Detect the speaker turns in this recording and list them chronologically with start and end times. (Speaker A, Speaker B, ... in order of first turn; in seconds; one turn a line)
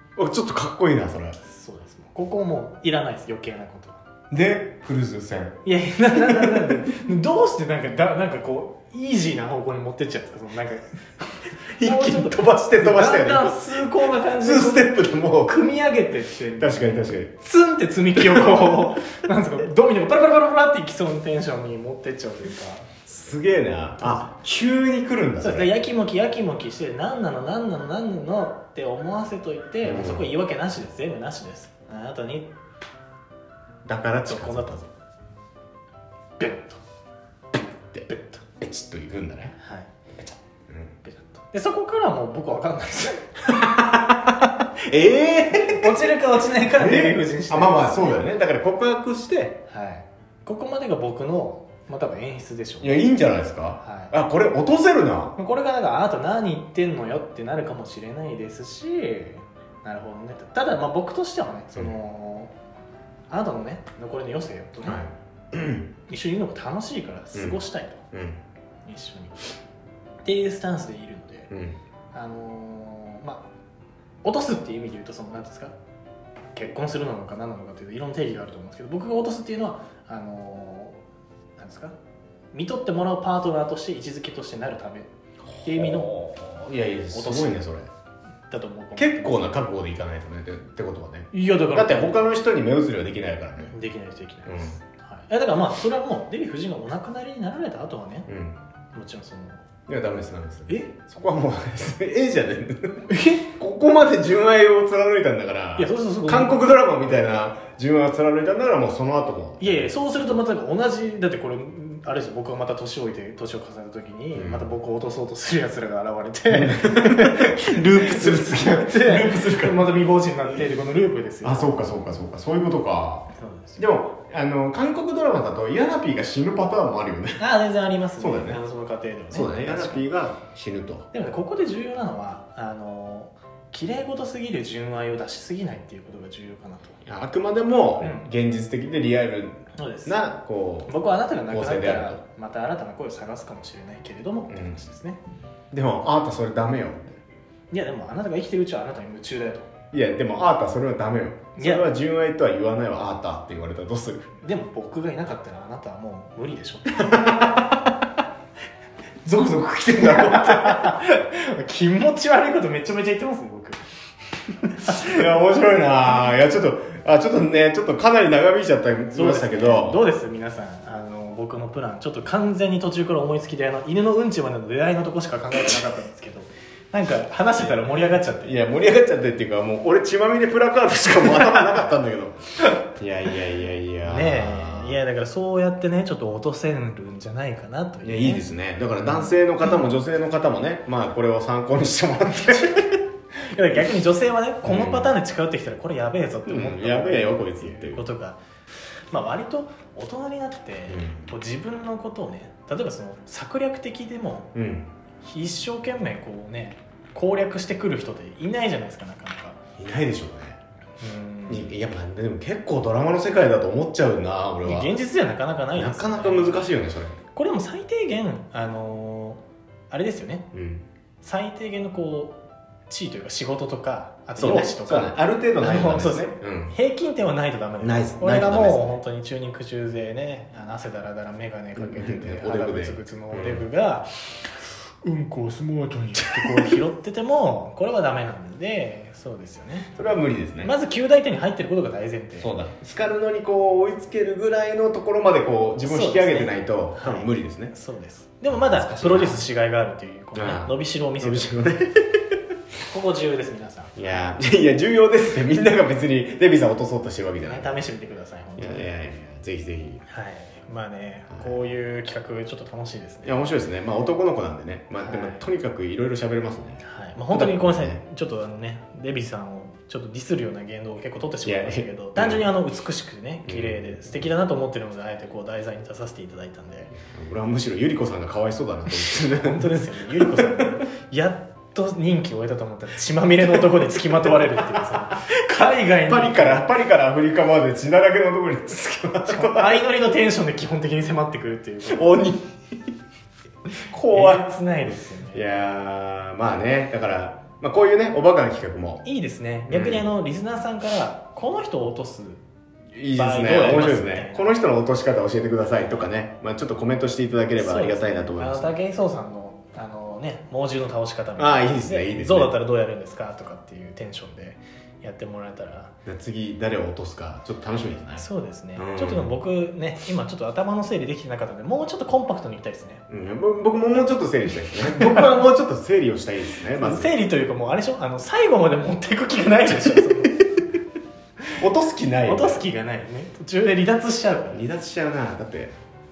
Speaker A: 0.2-1.4
Speaker B: 1.4-4.0
Speaker A: 4.3-5.6
Speaker B: 5.7-22.9
Speaker A: 6.2-6.8
Speaker A: 11.8-13.8
Speaker A: 14.3-15.6
Speaker A: 16.6-17.3
Speaker A: 18.2-18.8
Speaker A: 23.1-25.7
Speaker B: 24.0-24.3
Speaker B: 25.4-32.5
Speaker A: 29.8-30.3
Speaker A: 33.9-34.9
Speaker B: 34.3-34.8
Speaker B: 36.4-36.8
Speaker A: 37.9-39.5
Speaker B: 38.1-38.4
Speaker B: 39.6-39.9
Speaker A: 40.7-41.0
Speaker B: 41.0-43.4
Speaker A: 43.5-46.0
Speaker B: 45.7-48.2
Speaker A: 46.7-49.6
Speaker B: 49.7-53.0
Speaker A: 52.8-55.4
Speaker B: 53.8-54.1
Speaker B: 55.4-62.5
Speaker B: 63.3-65.0
Speaker A: 64.9-65.9
Speaker B: 66.1-68.0
Speaker A: 68.1-68.4
Speaker B: 68.8-69.5
Speaker B: 70.2-71.5
Speaker A: 71.5-71.8
Speaker B: 72.1-73.5
Speaker B: 74.2-75.8
Speaker B: 76.5-81.0
Speaker B: 81.6-82.0
Speaker B: 82.5-85.1
Speaker A: 85.5-87.9
Speaker B: 85.6-86.2
Speaker B: 87.1-87.6
Speaker B: 88.5-89.5
Speaker A: 89.0-93.8
Speaker B: 91.3-92.2
Speaker B: 93.7-98.3
Speaker A: 94.5-94.8
Speaker A: 98.3-98.6
Speaker B: 98.9-99.6
Speaker A: 99.9-110.0
Speaker B: 103.1-103.4
Speaker B: 105.8-106.6
Speaker B: 109.6-121.9
Speaker A: 114.3-114.7
Speaker A: 116.5-119.9
Speaker A: 121.4-127.4
Speaker B: 123.4-123.8
Speaker B: 127.4-130.1
Speaker A: 128.2-128.6
Speaker A: 129.3-131.1
Speaker B: 131.1-137.0
Speaker A: 137.1-140.9
Speaker B: 138.0-138.3
Speaker B: 139.8-140.2
Speaker B: 140.9-145.2
Speaker A: 141.5-142.2
Speaker A: 144.5-144.8
Speaker A: 145.7-147.2
Speaker B: 147.7-149.7
Speaker A: 149.9-154.3
Speaker B: 151.6-151.9
Speaker B: 154.4-157.6
Speaker A: 157.0-157.8
Speaker A: 159.2-161.0
Speaker B: 160.0-163.9
Speaker B: 164.7-165.3
Speaker A: 164.8-170.0
Speaker B: 169.1-178.6
Speaker A: 178.4-185.0
Speaker B: 181.2-181.9
Speaker B: 184.0-188.5
Speaker A: 188.0-193.0
Speaker B: 189.0-189.3
Speaker B: 193.3-198.4
Speaker A: 194.6-195.2
Speaker A: 196.5-198.0
Speaker B: 199.1-204.6
Speaker A: 200.9-201.3
Speaker A: 204.6-204.9
Speaker B: 205.2-209.6
Speaker A: 209.8-210.6
Speaker B: 211.0-211.7
Speaker A: 211.5-215.0
Speaker B: 214.6-216.7
Speaker A: 215.8-217.2
Speaker B: 217.3-220.5
Speaker A: 220.5-220.8
Speaker B: 221.2-222.4
Speaker B: 222.9-240.0
Speaker A: 224.4-226.8
Speaker A: 227.8-228.8
Speaker A: 231.8-233.7
Speaker A: 236.3-236.7
Speaker A: 240.0-240.7
Speaker B: 240.6-242.5
Speaker A: 242.4-247.7
Speaker B: 245.8-251.5
Speaker A: 248.5-249.4
Speaker A: 250.3-252.4
Speaker B: 252.9-254.2
Speaker A: 254.0-257.8
Speaker B: 257.4-258.9
Speaker A: 258.6-260.0
Speaker B: 260.1-263.4
Speaker A: 263.2-268.0
Speaker B: 265.0-265.4
Speaker B: 266.8-277.0
Speaker A: 271.4-272.5
Speaker A: 273.5-274.0
Speaker A: 277.0-280.7
Speaker B: 279.0-286.6
Speaker A: 284.4-285.1
Speaker A: 286.1-289.8
Speaker B: 289.3-292.1
Speaker A: 291.9-292.9
Speaker A: 293.8-294.6
Speaker B: 294.1-295.4
Speaker A: 295.3-299.0
Speaker B: 299.1-302.4
Speaker A: 299.7-300.1
Speaker A: 302.9-308.8
Speaker B: 303.1-304.6
Speaker B: 307.6-315.9
Speaker A: 311.4-312.5
Speaker A: 316.1-319.3
Speaker B: 318.2-323.1
Speaker A: 323.1-327.1
Speaker B: 326.8-330.6
Speaker A: 329.8-330.3
Speaker A: 331.6-332.6
Speaker B: 332.3-334.7
Speaker A: 334.5-335.8